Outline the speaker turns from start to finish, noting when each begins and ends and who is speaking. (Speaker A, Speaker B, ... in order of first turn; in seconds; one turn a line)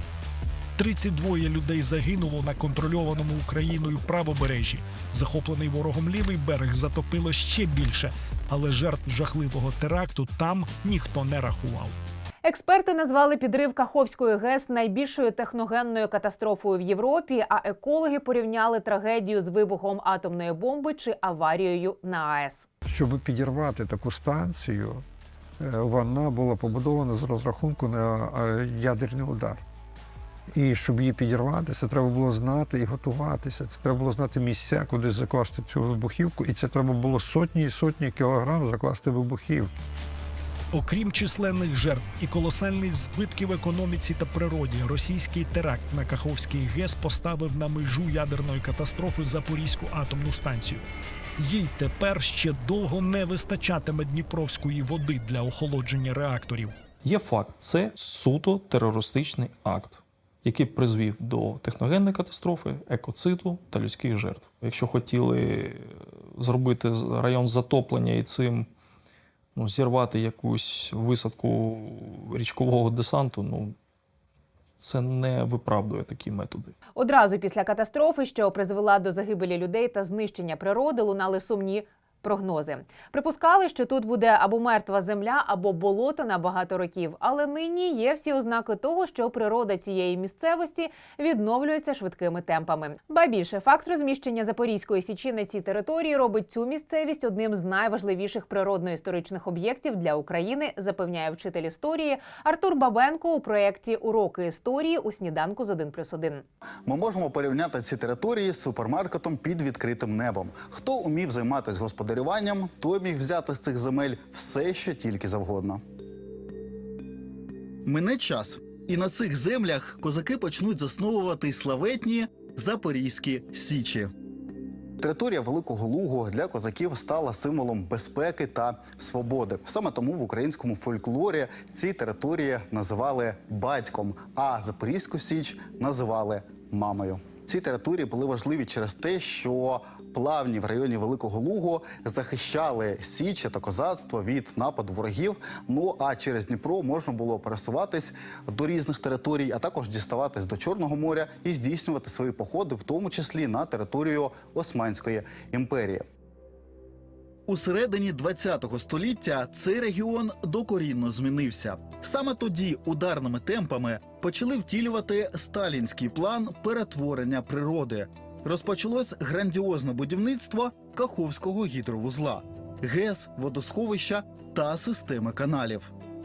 Speaker A: 0.8-11.9
Speaker B: 12.4-22.6
Speaker C: 22.9-25.0
Speaker C: 25.6-29.6
Speaker C: 30.6-39.7
Speaker A: 40.7-50.8
Speaker A: 51.4-56.8
Speaker D: 57.0-68.7
Speaker D: 69.5-73.8
Speaker D: 74.8-76.8
Speaker B: 77.0-106.4
Speaker E: 106.9-115.8
Speaker E: 117.8-124.1
Speaker E: 125.0-156.0
Speaker E: 157.5-175.9